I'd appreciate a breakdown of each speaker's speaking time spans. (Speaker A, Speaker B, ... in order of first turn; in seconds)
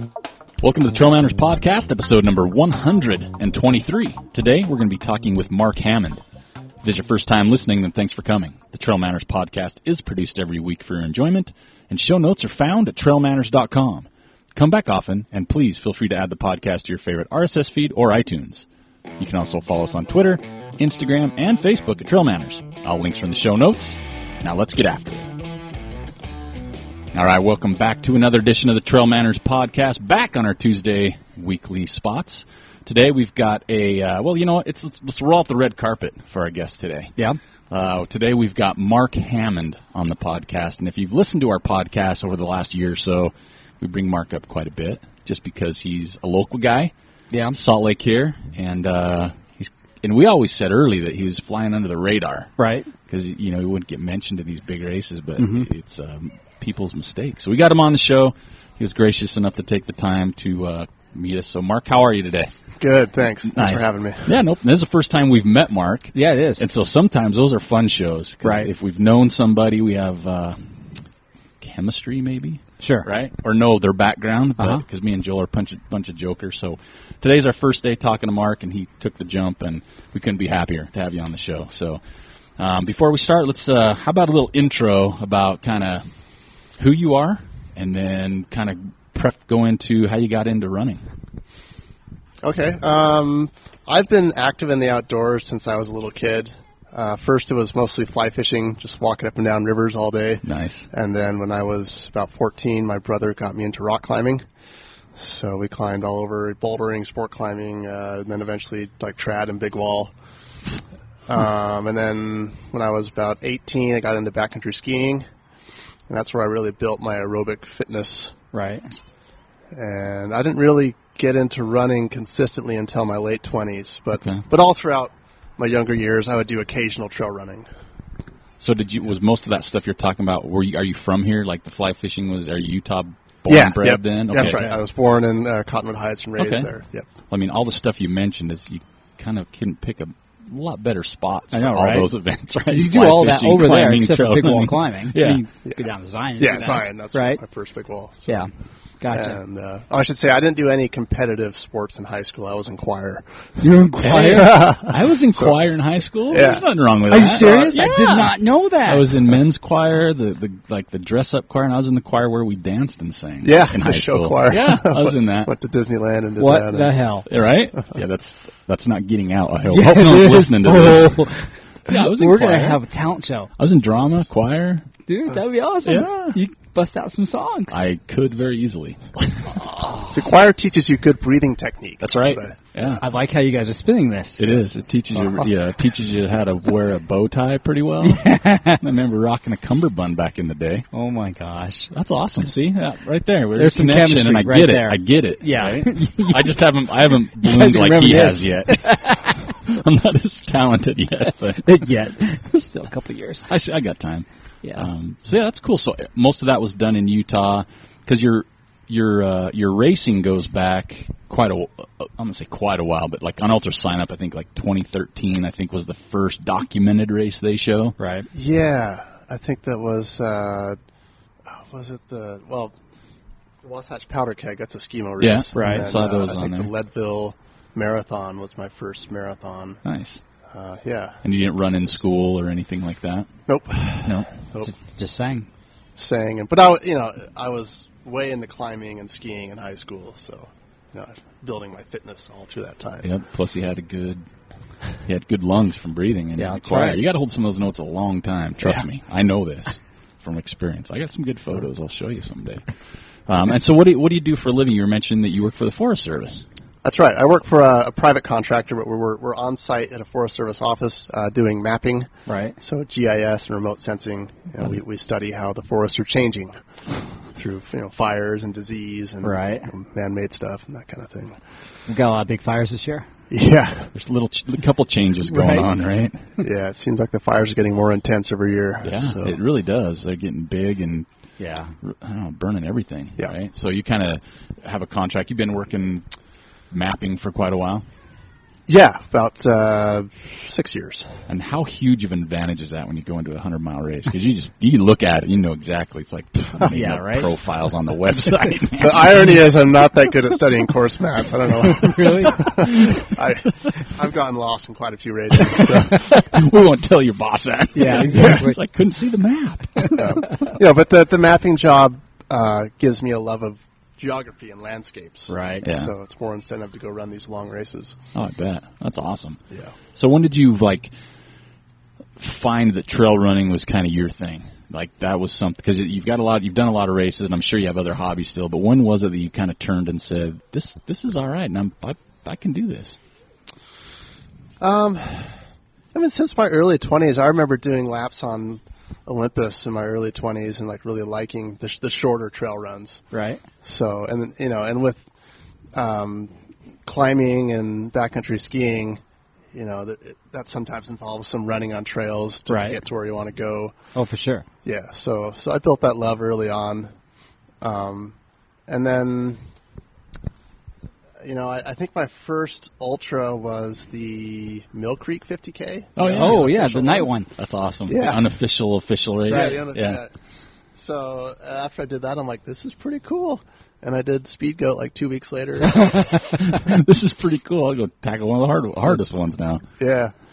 Speaker A: 0.6-6.2, 6.8-18.6, 19.2-25.3, 27.1-37.1, 37.7-46.9, 47.5-52.5, 53.1-62.5, 63.4-70.9, 71.6-82.0, 82.6-86.0, 86.8-91.0, 100.4-100.9, 124.1-124.4, 128.6-134.7, 136.4-136.7, 137.3-145.4, 154.2-165.5, 167.2-171.2, 171.8-172.8, 173.6-174.9, 175.8-176.4, 177.7-179.5, 182.0-183.0, 184.4-190.9, 191.9-201.8, 203.4-217.9, 225.2-226.7, 229.8-230.2, 231.2-233.4, 234.0-234.3, 243.0-244.3, 245.0-252.7, 253.3-256.4, 273.9-276.3, 278.8-281.1, 281.8-286.1, 286.7-287.9, 291.3-299.4, 305.4-310.2, 315.6-315.9, 318.1-319.4, 319.9-320.9, 322.2-333.0, 365.9-366.5, 367.4-370.0, 376.3-379.6
Speaker B: 47.3-47.6, 52.6-52.9, 66.1-66.6, 68.4-68.7, 72.8-73.1, 74.6-74.8, 118.5-118.9, 134.3-134.8, 141.5-142.1, 142.7-147.4, 148.2-149.4, 153.6-154.7, 157.1-159.3, 166.4-167.3, 169.6-173.5, 175.1-177.8, 179.6-180.2, 183.0-184.6, 188.0-188.8, 190.9-191.9, 193.6-199.5, 201.6-203.5, 204.6-204.9, 218.0-218.3, 225.5-225.8, 234.6-235.5, 246.4-247.0, 262.2-262.6, 269.2-269.7, 271.9-273.1, 281.4-281.7, 296.7-297.3, 301.6-302.8, 307.7-308.6, 309.8-310.2, 315.3-315.7, 343.1-343.4, 352.5-352.8, 353.9-354.4, 366.0-367.3, 369.3-369.6, 375.7-376.5
Speaker C: 62.8-64.4, 92.4-104.4, 105.2-110.1, 111.3-115.2, 116.1-118.3, 119.7-127.7, 133.5-137.1, 146.4-148.4, 149.1-155.6, 156.3-157.8, 163.4-167.0, 180.1-183.0, 185.2-185.4, 218.3-220.8, 221.4-222.7, 223.6-229.8, 230.5-231.2, 233.5-234.7, 235.9-243.1, 256.8-266.6, 267.2-271.4, 273.3-273.9, 275.3-275.7, 276.4-279.3, 288.7-291.1, 298.8-306.2, 308.1-308.4, 309.9-318.0, 334.6-335.4, 335.9-343.0, 343.6-345.0, 345.7-349.0, 349.5-353.7, 354.6-356.9, 357.6-358.1, 358.7-359.4, 361.2-367.1, 367.9-368.2, 369.2-370.1, 370.8-376.1, 378.9-379.1, 379.8-380.1